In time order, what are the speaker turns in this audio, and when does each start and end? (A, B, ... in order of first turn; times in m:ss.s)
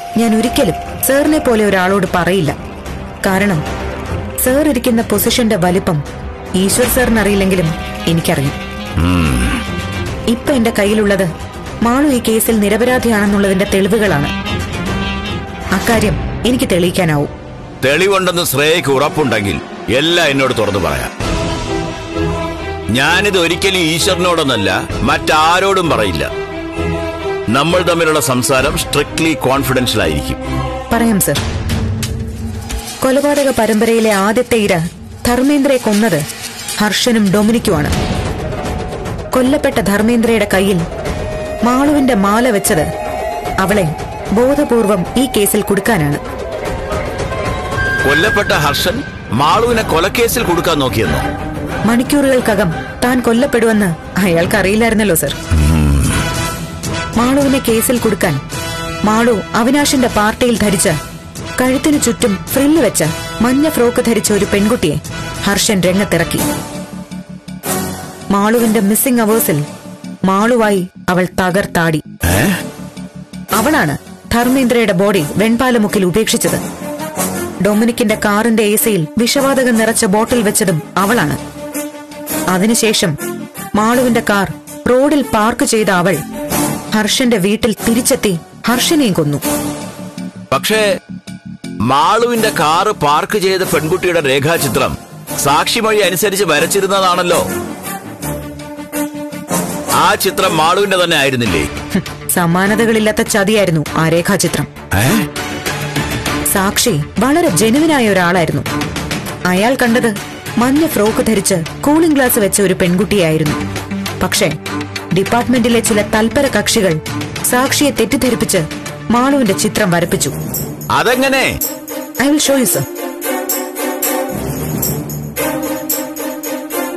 0:00.2-0:02.6 A
0:03.2-0:03.6 A
0:04.4-0:06.0 A
0:06.6-0:08.6 A
0:09.0-0:09.6 B
0:10.3-0:11.3 A
0:11.8-0:14.3 A
0:15.8-0:17.3 A
0:17.8-0:21.1 B
0:23.0-0:26.3 B
0:27.5-0:30.4 B
0:30.9-0:31.4 A
0:33.0-0:36.2 A
0:36.8-0:37.9 A
0:39.4-0:40.8 A
0:41.7-0:42.9 A
0:43.6-0:46.2 A
0:48.1-0:51.2 B
0:51.9-0:55.4 A
0:55.6-0:56.2 B
0:57.2-0:58.4 A
0:59.1-1:01.0 A
1:01.6-1:06.4 A
1:08.3-1:09.6 A
1:10.3-1:12.0 A
1:13.6-1:16.6 A
1:17.6-1:21.4 A
1:22.5-1:23.2 A
1:23.8-1:26.2 A
1:27.0-1:29.4 A
1:30.5-1:30.8 B
1:31.9-1:37.4 B
1:40.0-1:41.7 B
1:42.0-1:44.7 A
1:45.0-1:45.2 B
1:46.5-1:48.6 A
1:49.5-1:53.6 A
1:54.2-1:54.5 A
1:55.2-1:57.0 A
1:57.5-2:00.4 A
2:01.0-2:01.5 B
2:02.2-2:02.8 A